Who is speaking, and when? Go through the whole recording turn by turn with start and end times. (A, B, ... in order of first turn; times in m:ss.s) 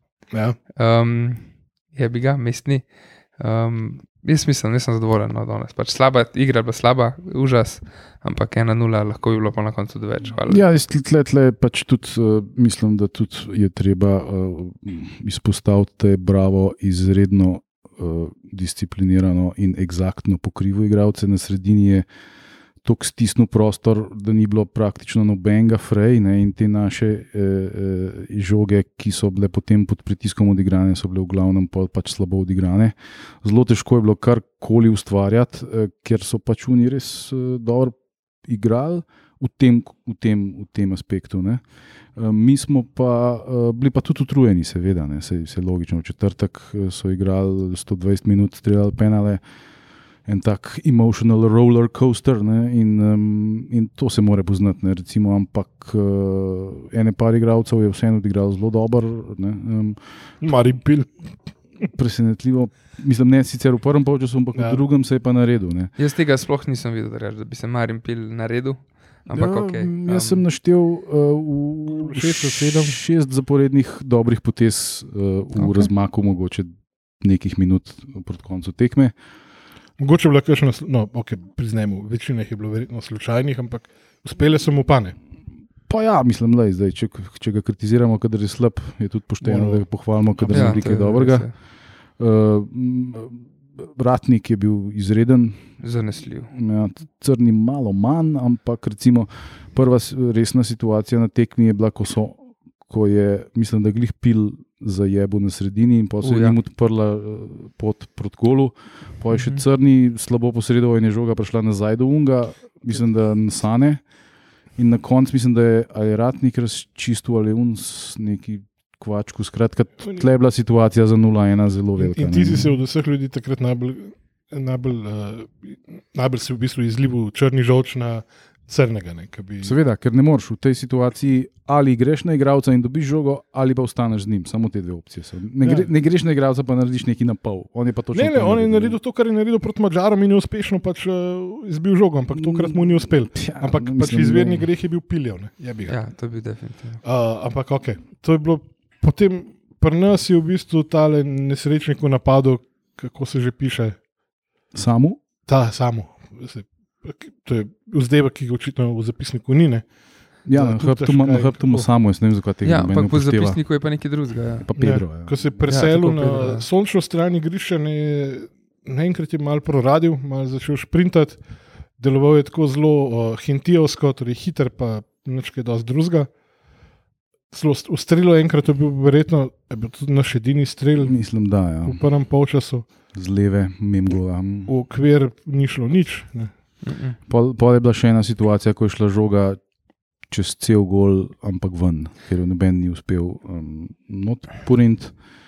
0:00.3-0:00.6 A
0:00.8-0:10.6 B
0:10.4-0:22.0 C
0:22.8-0:37.9 C
0:38.4-0:41.6 C
0:42.2-0:49.4 C
0:50.2-1:00.0 C
1:00.4-1:01.2 A
1:01.9-1:05.9 C
1:04.5-1:04.8 A
1:06.0-1:10.4 B
1:09.3-1:16.7 C
1:11.9-1:13.0 A
1:15.6-1:15.9 B
1:17.2-1:19.1 C
1:20.0-1:25.2 A
1:25.9-1:31.5 C
1:29.4-1:30.8 A
1:30.5-1:31.5 B
1:32.2-1:35.6 C
1:35.8-1:36.5 B
1:36.5-1:54.0 C
1:46.2-1:46.6 B
1:49.3-1:49.6 B
1:54.8-2:02.6 C
2:02.0-2:09.8 A
2:09.6-2:19.0 C
2:15.6-2:15.9 A
2:18.1-2:26.0 A
2:22.3-2:24.7 C
2:25.9-2:27.0 B
2:27.0-2:34.0 A
2:34.7-2:35.2 C
2:35.4-2:39.9 A
2:40.4-2:43.6 C
2:40.5-2:41.9 A
2:42.6-2:44.7 B
2:44.6-2:45.3 C
2:44.8-2:51.4 A
2:45.7-2:46.6 B
2:52.0-2:56.3 A
2:57.5-3:01.2 A
3:01.0-3:02.0 C
3:01.8-3:02.9 A
3:03.1-3:04.7 C
3:04.7-3:06.5 A
3:06.8-3:07.2 B
3:07.3-3:09.6 C
3:10.3-3:15.1 C